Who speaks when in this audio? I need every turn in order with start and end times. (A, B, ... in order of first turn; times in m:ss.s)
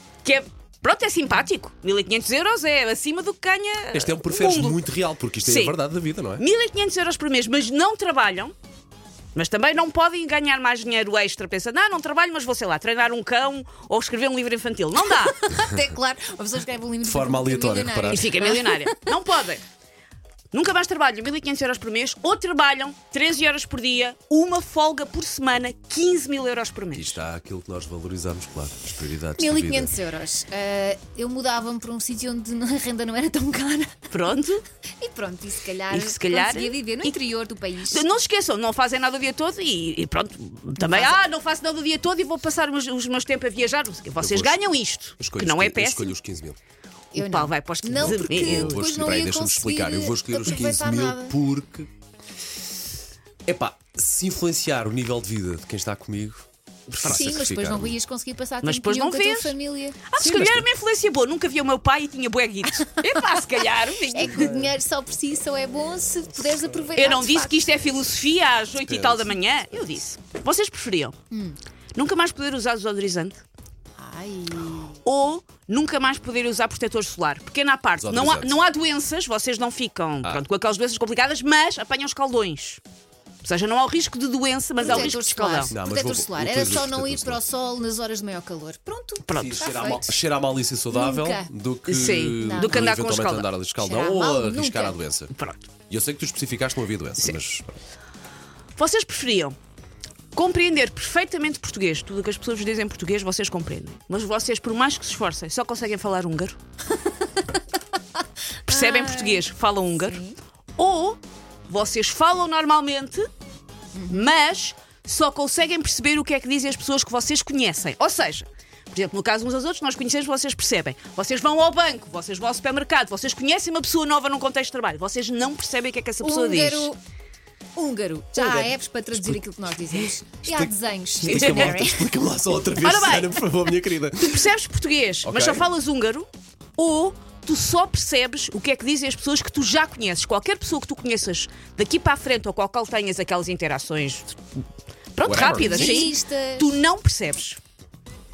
0:00.2-0:04.8 A
0:03.9-0:06.4 B
0:05.4-0:05.8 A
0:06.4-0:08.5 A
0:09.4-0:15.4 A
0:15.2-0:19.1 C
0:17.0-0:18.3 B
0:18.1-0:19.6 A
0:20.5-0:27.2 A
0:26.9-0:29.9 B
0:29.4-0:34.1 C
0:34.1-0:34.6 A
0:35.0-0:38.0 C
0:35.9-0:37.2 A
0:37.9-0:46.2 A
0:40.8-0:41.2 C
0:44.2-0:44.7 B
0:45.2-0:46.6 B
0:47.1-0:51.4 C
0:47.1-0:48.8 A
0:47.9-0:51.9 B
0:53.5-0:58.0 B
0:56.9-0:57.3 A
0:57.0-1:00.0 C
0:58.6-0:59.6 A
1:00.1-1:04.5 A
1:00.2-1:00.7 B
1:04.1-1:07.7 C
1:04.4-1:04.7 B
1:07.0-1:11.2 A
1:08.8-1:09.3 B
1:11.3-1:11.6 C
1:12.0-1:13.4 A
1:14.0-1:15.0 C
1:15.0-1:22.8 A
1:18.0-1:18.6 B
1:23.4-1:25.7 A
1:24.8-1:30.0 C
1:24.9-1:25.2 B
1:25.7-1:27.4 B
1:29.3-1:30.0 A
1:29.3-1:35.3 B
1:30.9-1:31.5 C
1:31.9-1:33.5 A
1:32.4-1:32.7 C
1:33.8-1:35.0 C
1:35.3-1:35.7 A
1:35.9-1:37.8 B
1:38.8-1:39.6 A
1:40.4-1:46.6 A
1:48.7-1:50.2 A
1:48.7-1:49.4 C
1:50.0-1:50.3 C
1:50.8-1:53.3 A
1:54.0-1:54.3 C
1:54.1-2:06.9 A
2:06.2-2:07.0 C
2:07.8-2:12.1 C
2:08.4-2:09.4 B
2:10.4-2:14.5 B
2:11.2-2:11.8 A
2:12.8-2:13.4 A
2:14.2-2:24.4 A
2:15.2-2:15.7 B
2:25.2-2:27.6 A
2:25.2-2:26.1 B
2:25.5-2:26.7 C